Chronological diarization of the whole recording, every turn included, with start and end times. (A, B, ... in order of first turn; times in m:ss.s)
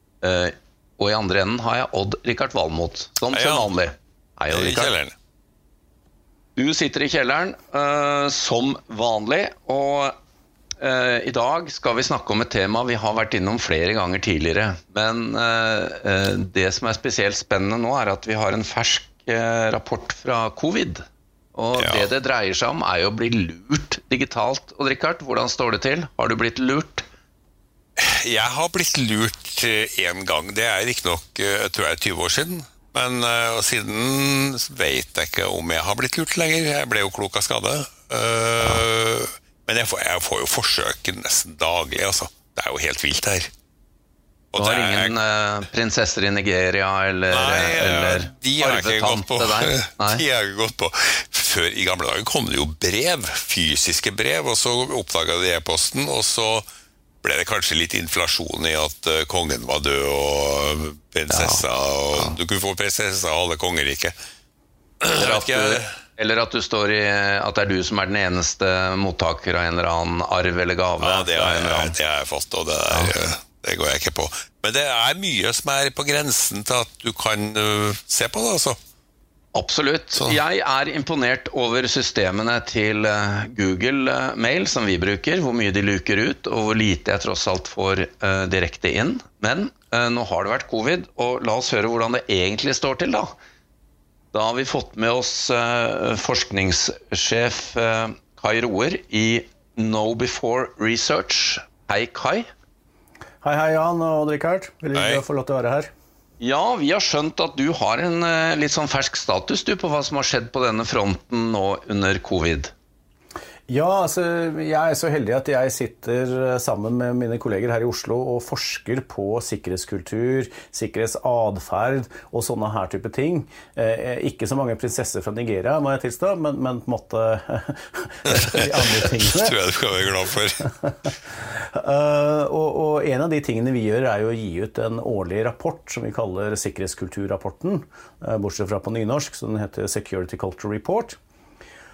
0:00.2-0:04.9 A
0:03.3-0:03.7 B
0:04.5-0:05.1 B
0:06.6-0:10.2 A
0:10.8-0:27.1 A
0:21.8-0:22.1 B
0:28.0-0:43.5 B
0:44.5-0:45.2 B
0:44.6-0:50.2 A
0:47.3-0:56.7 B
0:57.2-1:04.2 B
1:01.3-1:01.6 A
1:05.0-1:05.9 B
1:05.1-1:12.0 A
1:11.0-1:18.8 B
1:19.5-1:33.4 A
1:34.3-1:42.5 A
1:43.4-1:45.9 C
1:44.9-1:45.2 B
1:46.4-1:52.7 A
1:53.7-2:09.6 C
2:08.3-2:10.7 B
2:11.5-2:21.2 C